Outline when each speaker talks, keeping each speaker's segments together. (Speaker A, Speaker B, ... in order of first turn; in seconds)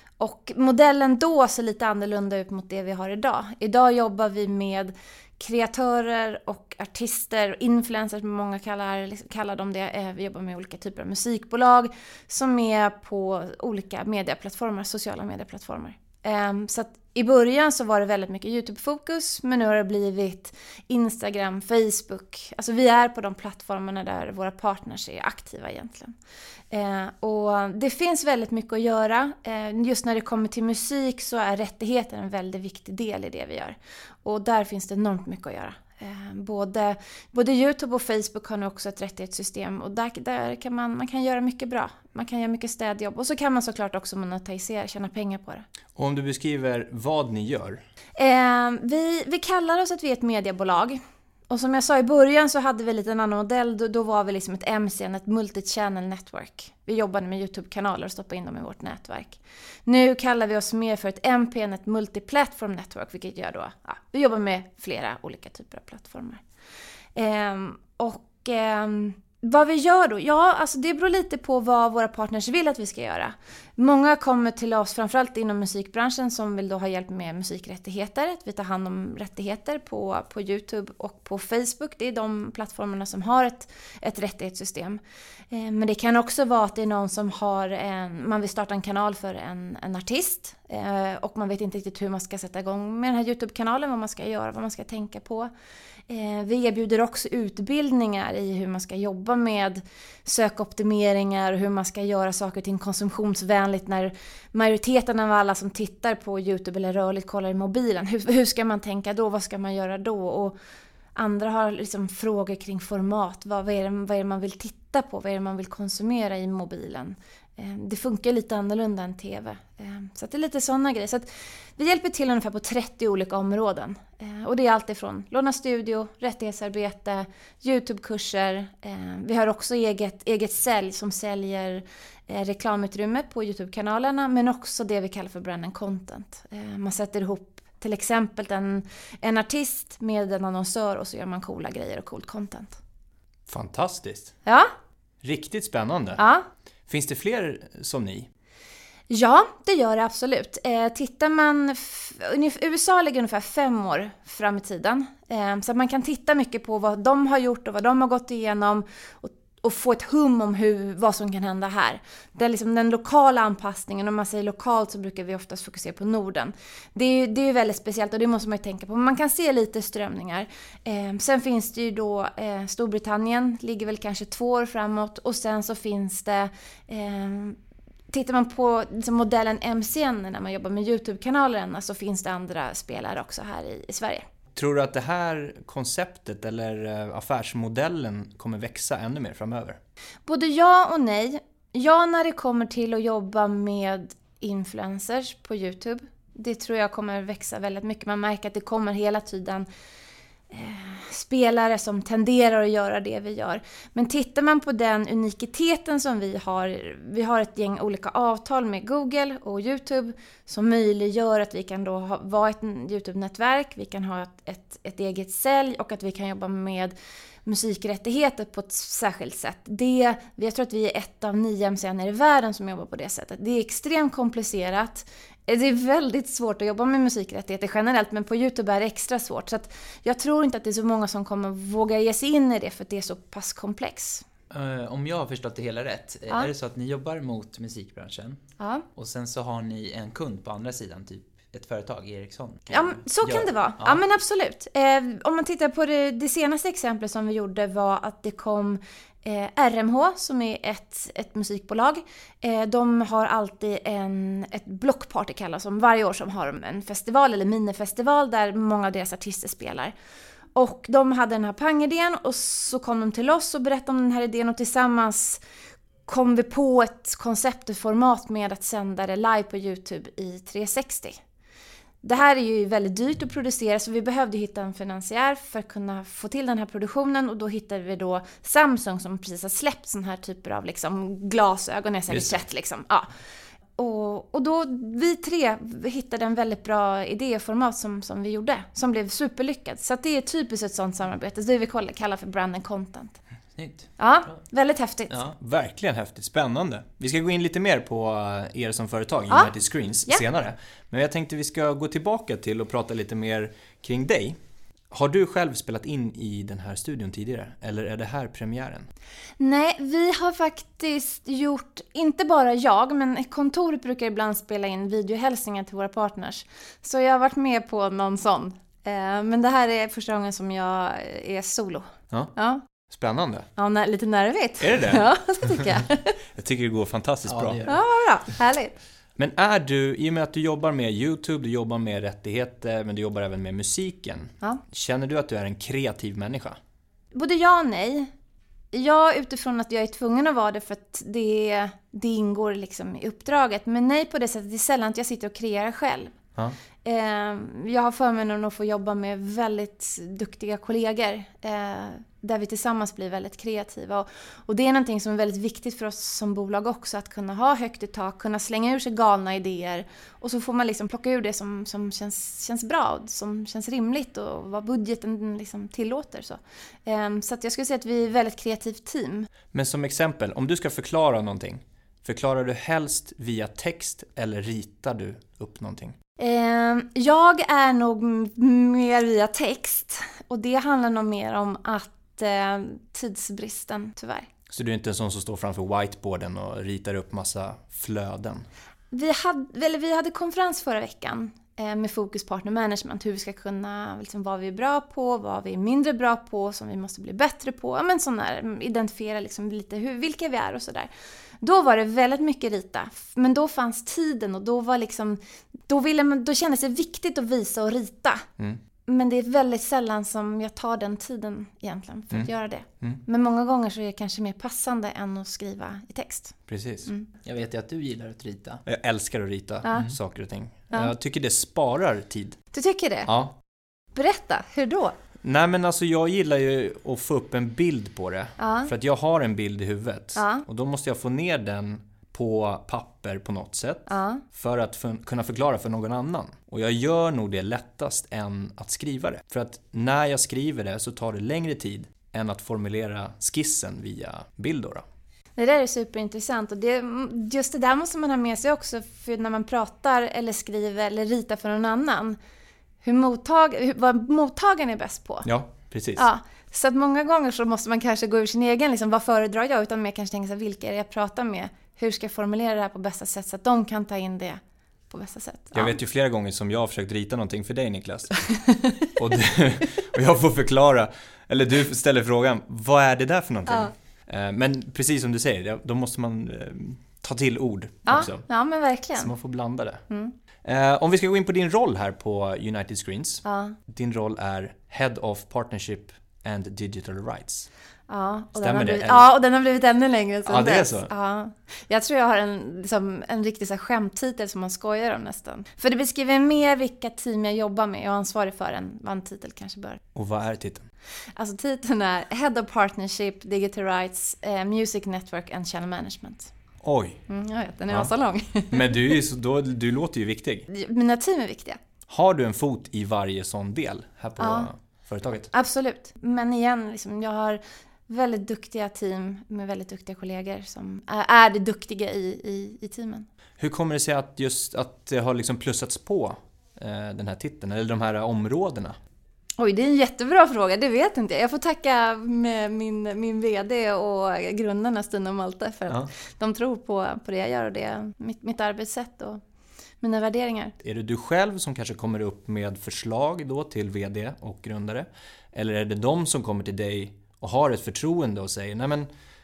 Speaker A: 0.2-26.1, 26.7-45.6, 48.2-66.4, 67.1-85.0, 85.5-95.5, 96.1-110.5, 111.2-142.8, 144.4-144.7, 146.2-146.5, 149.1-177.6, 178.1-184.2, 190.2-199.7, 200.5-216.9, 217.4-234.2, 238.6-238.8, 242.7-259.9, 260.5-265.4, 266.1-271.2, 272.0-283.1, 283.8-293.2, 294.0-295.2, 309.4-322.6, 323.6-326.2, 327.6-328.7, 337.1-338.1, 338.7-346.2, 346.8-369.3, 376.2-384.3, 388.9-400.9, 401.4-408.3, 408.9-417.1, 419.6-419.9, 422.5-423.1, 423.9-424.9, 428.4-428.7, 430.1-430.4, 433.9-434.2, 445.4-452.2, 452.8-455.3, 455.9-465.8, 468.3-468.9, 473.5-473.7, 477.9-479.1, 479.9-480.1, 483.2-483.6, 487.9-499.8, 501.1-506.3, 507.1-508.7, 510.5-511.6, 514.2-514.5, 515.3-523.1, 529.4-539.2, 539.8-540.5
Speaker B: 46.0-47.8, 143.5-144.3, 145.2-146.2, 146.9-148.3, 184.5-189.8, 282.1-282.4, 295.4-304.4, 304.9-308.9, 322.9-323.5, 324.6-325.6, 326.3-327.6, 329.1-336.6, 369.5-375.9, 384.5-388.5, 412.1-413.0, 416.5-416.9, 418.6-422.4, 423.1-423.3, 425.2-444.8, 455.2-456.0, 465.5-468.3, 468.9-478.3, 479.0-479.8, 480.4-487.5, 488.4-489.1, 490.2-490.9, 499.9-500.7, 506.6-507.0, 508.5-510.4, 511.9-515.3, 523.4-528.8, 540.6-548.9
Speaker C: 234.5-238.4, 238.9-244.0, 293.6-294.4, 327.3-327.8, 417.2-418.6